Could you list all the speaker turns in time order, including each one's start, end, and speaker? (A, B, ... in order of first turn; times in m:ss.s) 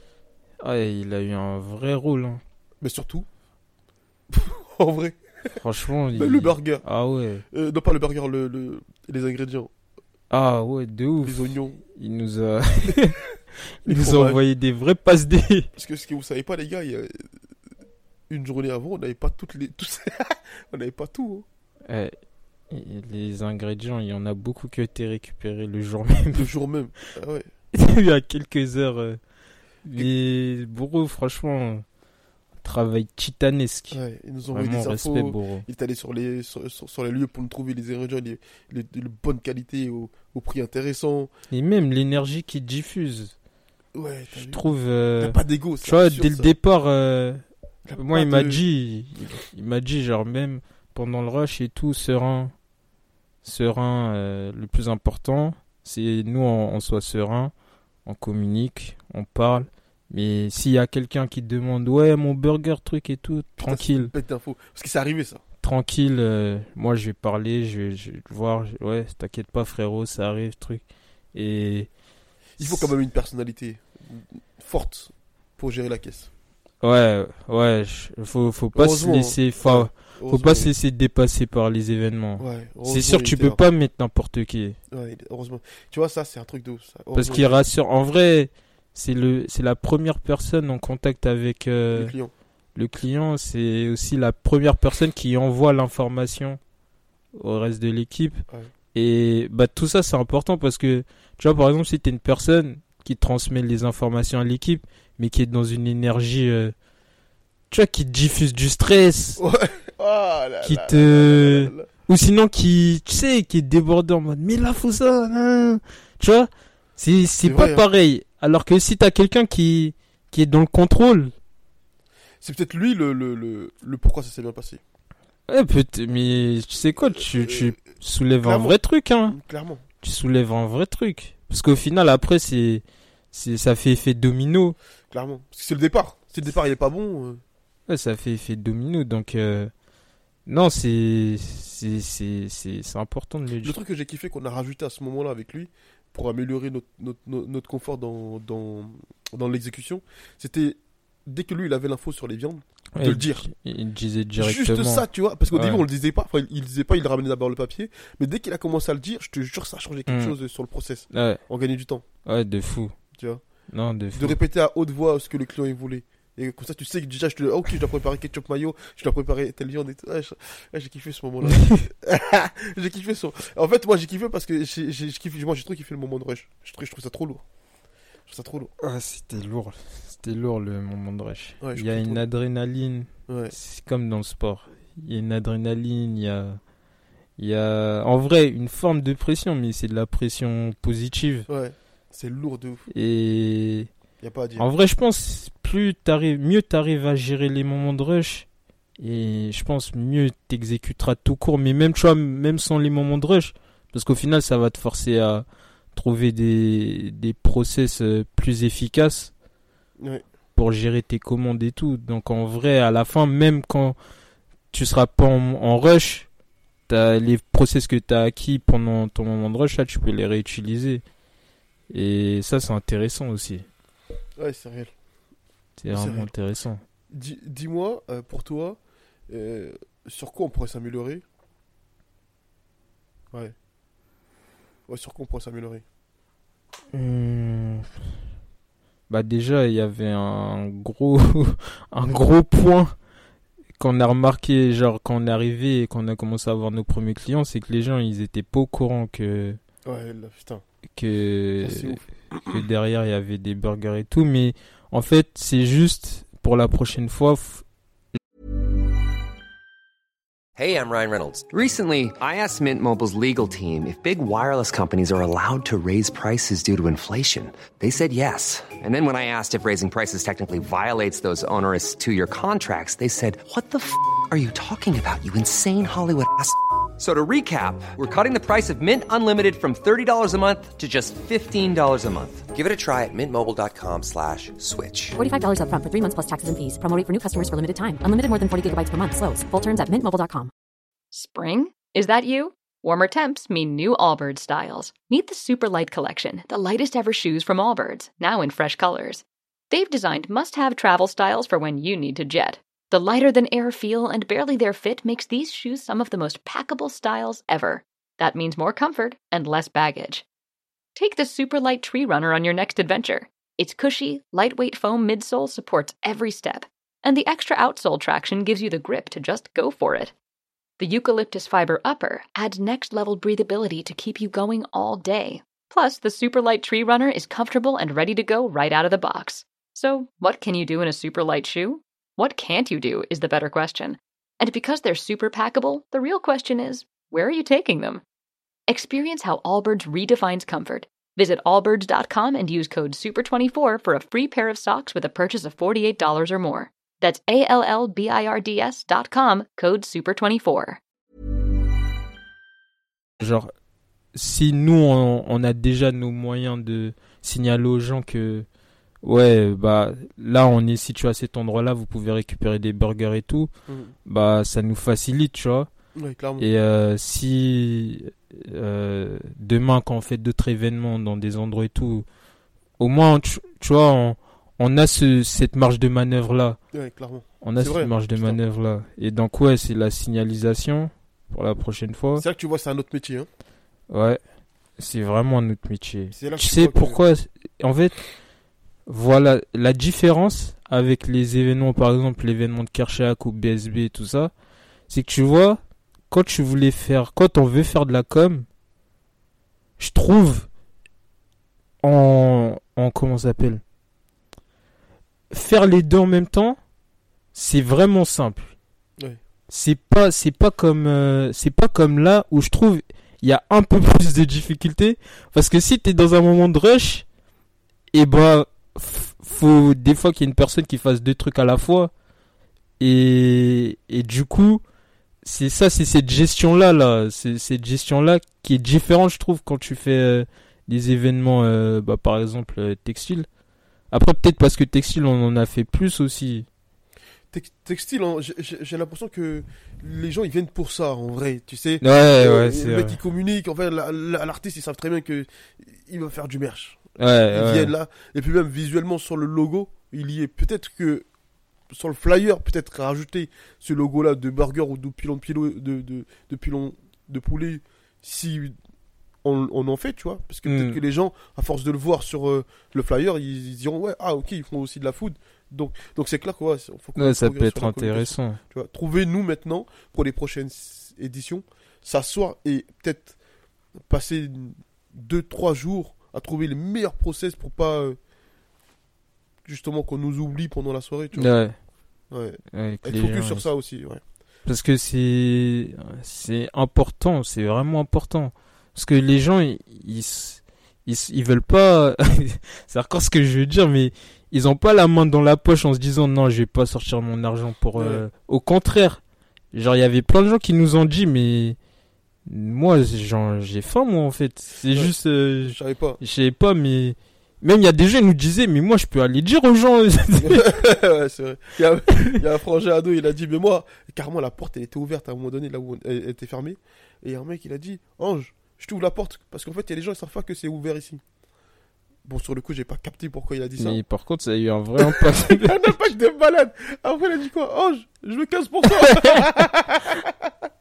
0:00.6-0:02.4 A
0:02.8-0:03.3 B
0:04.3-0:05.6 B
0:05.5-0:07.4 A
0:06.1-0:06.8 B
0:07.5-0:09.7 B
0:10.3-0:13.2 A
0:11.2-0:11.8 B
0:13.8-0:15.7 A
0:13.8-0:14.4 B
0:15.8-0:17.3 B
0:18.3-0:21.5 B
0:21.9-0:22.1 A
0:22.7-0:26.5 A
0:26.3-0:27.5 B
0:27.7-0:29.2 A
0:29.8-0:31.8 A
0:32.6-0:34.0 A
0:33.9-0:41.3 B
0:34.5-0:35.7 A
0:41.5-0:43.3 A
0:44.0-0:44.6 B
0:44.3-0:47.4 A
0:45.2-0:46.5 B
0:47.9-0:48.6 B
0:48.0-0:52.5 A
0:53.4-0:57.5 A
0:58.1-1:04.1 A
1:03.6-1:05.4 B
1:05.6-1:10.8 A
1:11.3-1:11.9 A
1:12.6-1:16.3 B
1:12.6-1:12.9 A
1:16.8-1:24.8 A
1:18.7-1:20.7 B
1:22.4-1:23.6 B
1:24.9-1:27.6 B
1:27.1-1:32.1 A
1:31.9-1:32.3 B
1:32.8-1:36.6 A
1:37.4-1:38.4 A
1:38.9-1:46.7 A
1:47.7-1:49.4 A
1:49.4-1:51.9 B
1:50.6-2:01.3 A
1:57.4-1:57.8 B
2:02.4-2:04.8 B
2:05.5-2:09.4 A
2:07.3-2:07.7 B
2:08.4-2:09.8 B
2:10.0-2:14.8 A
2:15.1-2:17.4 B
2:17.9-2:19.7 A
2:20.5-2:23.8 A
2:23.6-2:33.5 B
2:33.0-2:35.8 A
2:34.4-2:42.0 B
2:40.1-2:40.4 A
2:41.1-2:41.4 A
2:42.2-2:43.0 A
2:43.2-2:43.4 B
2:43.7-2:44.4 A
2:44.1-2:57.4 B
2:51.5-2:51.8 A
2:58.3-2:58.7 B
2:58.8-3:06.6 A
3:01.6-3:02.3 B
3:03.3-3:03.6 B
3:07.4-3:11.5 A
3:11.5-3:12.9 B
3:12.9-3:13.9 A
3:14.2-3:14.7 B
3:14.6-3:18.5 A
3:19.0-3:29.3 A
3:30.6-3:34.0 A
3:34.7-3:36.3 A
3:36.9-3:41.0 A
3:41.9-3:43.7 A
3:44.4-3:44.9 B
3:45.8-3:46.8 A
3:45.9-3:46.3 B
3:47.1-3:51.2 B
3:54.9-3:55.8 B
3:56.9-3:57.9 A
3:59.1-4:03.0 A
4:03.8-4:09.6 A
4:09.9-4:10.6 B
4:11.0-4:17.6 A
4:11.6-4:12.6 B
4:20.6-4:45.2 C
4:45.2-4:50.5 D
4:51.1-5:10.2 E
5:11.0-5:20.1 E
5:20.8-5:38.0 E
5:38.7-5:50.8 E
5:53.2-5:53.5 A
5:54.1-5:58.5 A
5:59.0-6:03.5 A
6:03.7-6:04.0 B
6:04.1-6:05.7 A
6:06.0-6:06.5 B
6:06.4-6:12.0 A
6:12.8-6:16.6 A
6:16.7-6:18.4 B
6:17.4-6:22.2 A
6:22.2-6:23.3 B
6:23.9-6:24.2 A
6:24.8-6:28.0 A
6:26.1-6:27.0 B
6:28.9-6:34.3 A
6:34.9-6:38.5 A
6:39.8-6:40.5 A
6:41.8-6:43.6 A
6:45.3-6:46.6 A
6:47.3-6:48.6 A
6:49.5-6:57.1 A
6:57.9-7:01.9 A
7:02.8-7:04.6 A
7:05.2-7:13.3 A
7:13.9-7:16.5 A
7:17.3-7:31.1 B
7:21.8-7:23.0 A
7:27.0-7:27.7 A
7:31.7-7:38.6 B
7:39.2-7:53.2 B
7:40.4-7:40.8 A
7:47.0-7:48.4 A
7:53.8-7:58.0 B
7:59.4-8:01.3 B
8:01.2-8:01.6 A
8:02.1-8:04.0 B
8:02.5-8:03.5 A
8:04.5-8:19.0 A
8:17.8-8:18.0 B
8:19.5-8:21.6 A
8:22.3-8:30.5 A
8:24.7-8:26.0 B
8:30.2-8:41.0 B
8:42.0-8:43.8 B
8:43.6-8:45.7 A
8:44.8-8:50.3 B
8:48.7-8:49.3 A